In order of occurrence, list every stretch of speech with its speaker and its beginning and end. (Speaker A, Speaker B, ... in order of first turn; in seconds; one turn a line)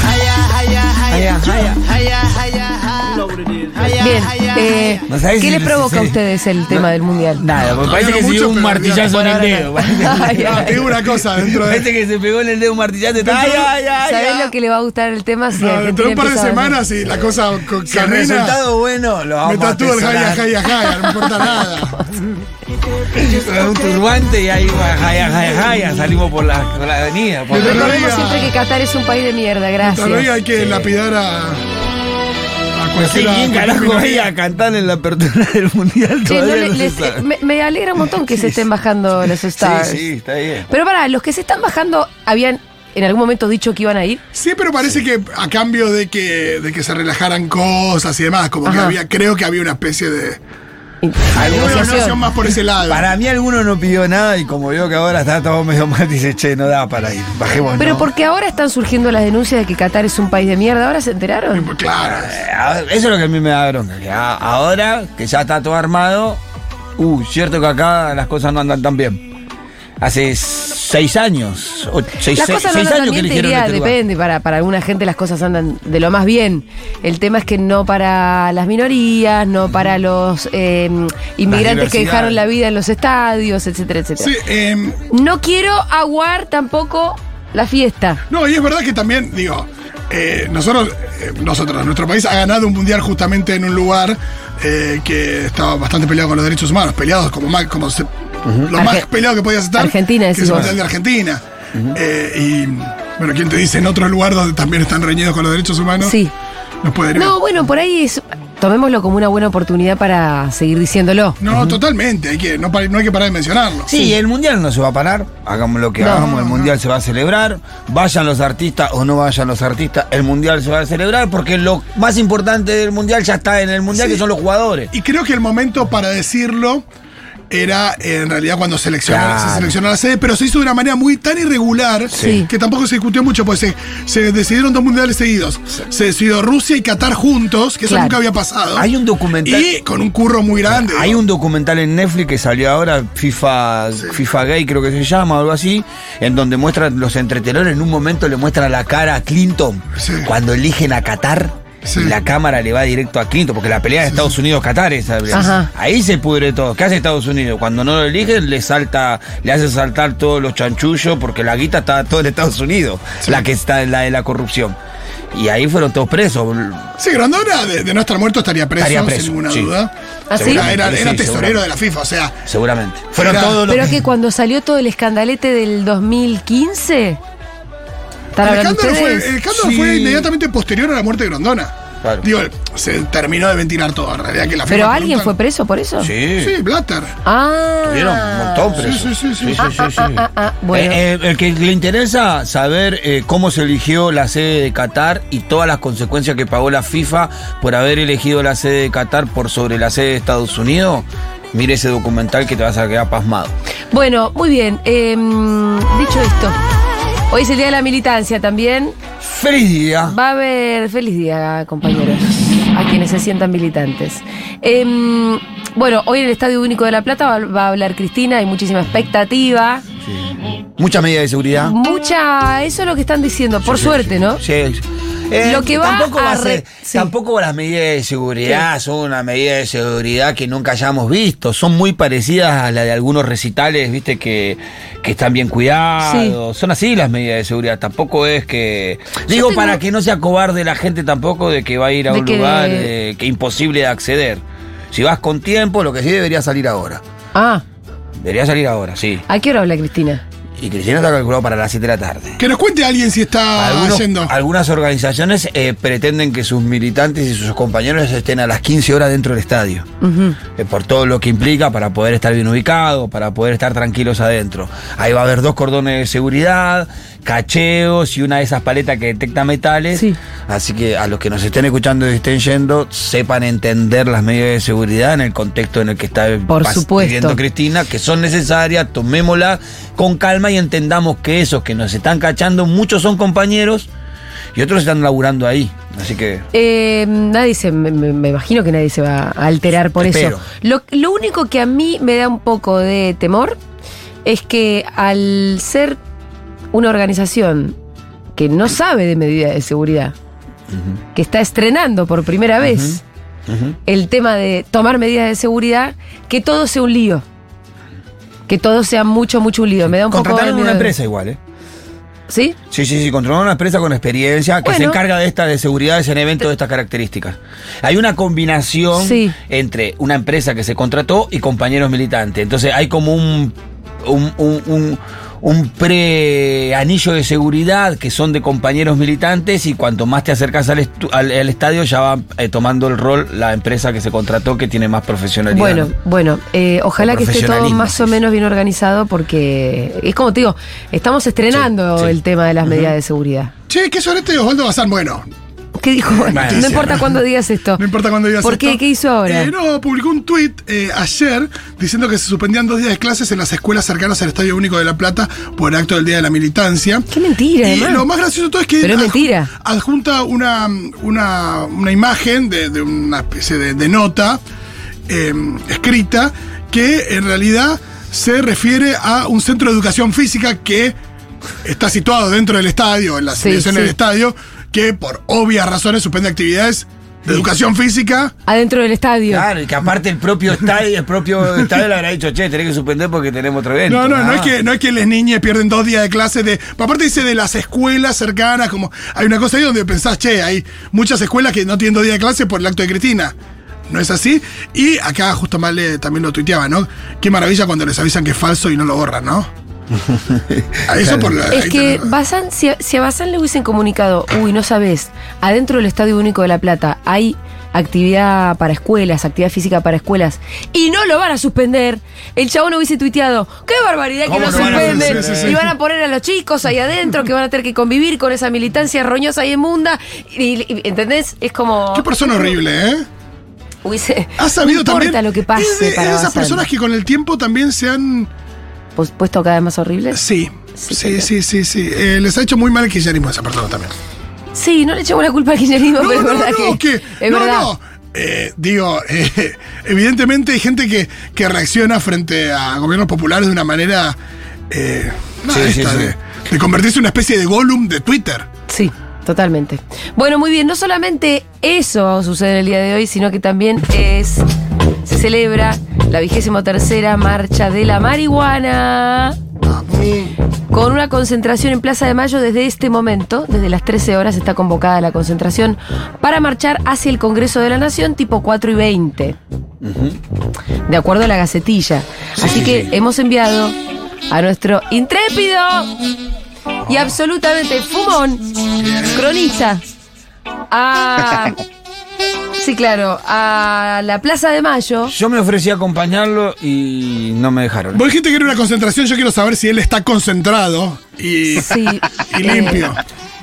Speaker A: 1.1-4.2
Speaker B: 3.9-7.4
Speaker A: 5.1-14.5
Speaker C: 7.7-9.2
Speaker B: 9.0-10.8
Speaker C: 10.4-11.9
Speaker C: 13.2-13.7
Speaker B: 14.0-16.8
Speaker C: 15.6-18.6
Speaker A: 17.9-20.6
Speaker C: 19.4-22.3
Speaker A: 23.1-28.1
Speaker C: 27.5-28.5
Speaker B: 27.5-30.3
Speaker C: 29.8-31.6
Speaker A: 30.6-30.9
Speaker C: 32.8-34.3
Speaker A: 33.0-37.2
Speaker B: 36.2-40.0
Speaker A: 38.1-38.6
Speaker A: 39.2-40.7
Speaker B: 40.7-44.2
Speaker C: 44.3-50.4
Speaker B: 48.6-49.0
Speaker B: 51.0-52.1
Speaker A: 51.3-58.1
Speaker C: 51.3-53.1
Speaker B: 57.8-61.7
Speaker C: 61.5-62.4
Speaker A: 62.0-66.4
Speaker A: 67.0-69.2
Speaker A: 70.0-74.0
Speaker B: 72.3-84.3
Speaker A: 81.5-82.4
Speaker C: 84.2-85.0
Speaker B: 85.1-88.2
Speaker C: 88.3-98.1
Speaker A: 98.4-98.7
Speaker C: 98.6-106.2
Speaker B: 98.8-99.1
Speaker B: 99.8-100.7
Speaker A: 100.5-100.8
Speaker B: 106.0-106.3
Speaker C: 106.8-107.3
Speaker B: 107.1-111.4
Speaker C: 111.4-113.9
Speaker A: 111.5-111.8
Speaker A: 113.8-124.9
Speaker B: 116.0-116.3
Speaker C: 116.0-116.7
Speaker C: 123.9-124.2
Speaker C: 124.9-126.8
Speaker C: 127.5-138.9
Speaker A: 129.1-129.8
Speaker A: 132.1-132.4
Speaker B: 132.1-132.5
Speaker B: 137.9-138.2
Speaker A: 138.7-139.7
Speaker C: 139.4-141.2
Speaker A: 140.7-164.8
Speaker C: 150.0-150.3
Speaker C: 151.8-152.1
Speaker C: 154.1-154.3
Speaker B: 155.3-155.7
Speaker A: 165.3-166.9
Speaker C: 167.0-172.4
Speaker A: 168.8-169.7
Speaker B: 170.3-170.7
Speaker A: 170.3-171.7
Speaker A: 172.4-174.0
Speaker C: 173.2-173.6
Speaker B: 173.7-177.2
Speaker B: 178.3-179.3
Speaker C: 178.4-185.3
Speaker A: 179.5-180.3
Speaker B: 184.7-186.1
Speaker A: 186.0-186.5
Speaker C: 186.4-187.1
Speaker B: 187.2-188.8
Speaker A: 187.8-203.5
Speaker C: 188.8-189.7
Speaker B: 189.6-191.0
Speaker B: 203.9-206.6
Speaker B: 207.3-208.9
Speaker A: 209.2-210.2
Speaker B: 210.0-219.8
Speaker A: 220.8-221.8
Speaker B: 221.6-224.4
Speaker A: 223.6-247.0
Speaker B: 225.4-227.1
Speaker B: 236.0-236.3
Speaker B: 239.3-239.8
Speaker B: 242.1-242.9
Speaker B: 247.3-247.6
Speaker A: 248.2-249.2
Speaker B: 249.3-250.2
Speaker A: 250.6-252.4
Speaker C: 252.4-254.3
Speaker A: 253.5-259.9
Speaker B: 260.0-260.4
Speaker A: 260.5-283.9
Speaker B: 276.5-277.4
Speaker A: 284.5-286.4
Speaker B: 286.5-293.6
Speaker A: 289.9-290.4
Speaker B: 294.2-296.0
Speaker B: 296.7-297.7
Speaker B: 298.4-300.1
Speaker A: 300.7-301.0
Speaker B: 301.1-303.0
Speaker A: 302.6-303.8
Speaker B: 303.9-307.2
Speaker B: 308.5-310.9
Speaker A: 310.1-311.4
Speaker B: 312.3-312.6
Speaker A: 312.7-335.9
Speaker B: 314.6-315.0
Speaker B: 318.9-319.3
Speaker B: 335.5-343.5
Speaker A: 337.0-338.1
Speaker A: 341.5-342.9
Speaker C: 343.7-345.2
Speaker B: 345.8-347.8
Speaker C: 346.1-347.2
Speaker A: 346.3-347.0
Speaker C: 347.8-357.1
Speaker B: 348.4-349.5
Speaker B: 357.1-358.0
Speaker C: 357.6-364.4
Speaker B: 358.8-359.5
Speaker C: 365.1-370.9
Speaker C: 371.6-378.3
Speaker B: 373.4-373.9
Speaker B: 378.5-379.5
Speaker A: 379.3-384.5
Speaker C: 383.9-393.3
Speaker C: 393.9-399.5
Speaker A: 400.0-401.4
Speaker C: 400.9-402.1
Speaker B: 401.5-422.5
Speaker A: 414.2-415.6
Speaker C: 414.3-415.7
Speaker C: 421.9-423.1
Speaker B: 423.8-426.6
Speaker C: 424.4-428.3
Speaker B: 428.9-430.2
Speaker C: 430.1-433.9
Speaker B: 430.7-431.3
Speaker B: 434.5-437.7
Speaker C: 436.0-444.2
Speaker C: 444.7-448.5
Speaker A: 445.5-446.1
Speaker B: 448.7-454.4
Speaker B: 455.0-459.4
Speaker C: 459.6-460.4
Speaker B: 460.7-469.4
Speaker A: 469.8-470.2
Speaker B: 470.9-473.8
Speaker A: 472.4-472.9
Speaker B: 474.3-475.9
Speaker B: 476.9-478.4
Speaker C: 478.8-479.3
Speaker B: 479.1-479.8
Speaker B: 480.7-481.6
Speaker B: 482.6-485.1
Speaker A: 485.1-488.0
Speaker C: 487.9-493.0
Speaker B: 491.6-492.8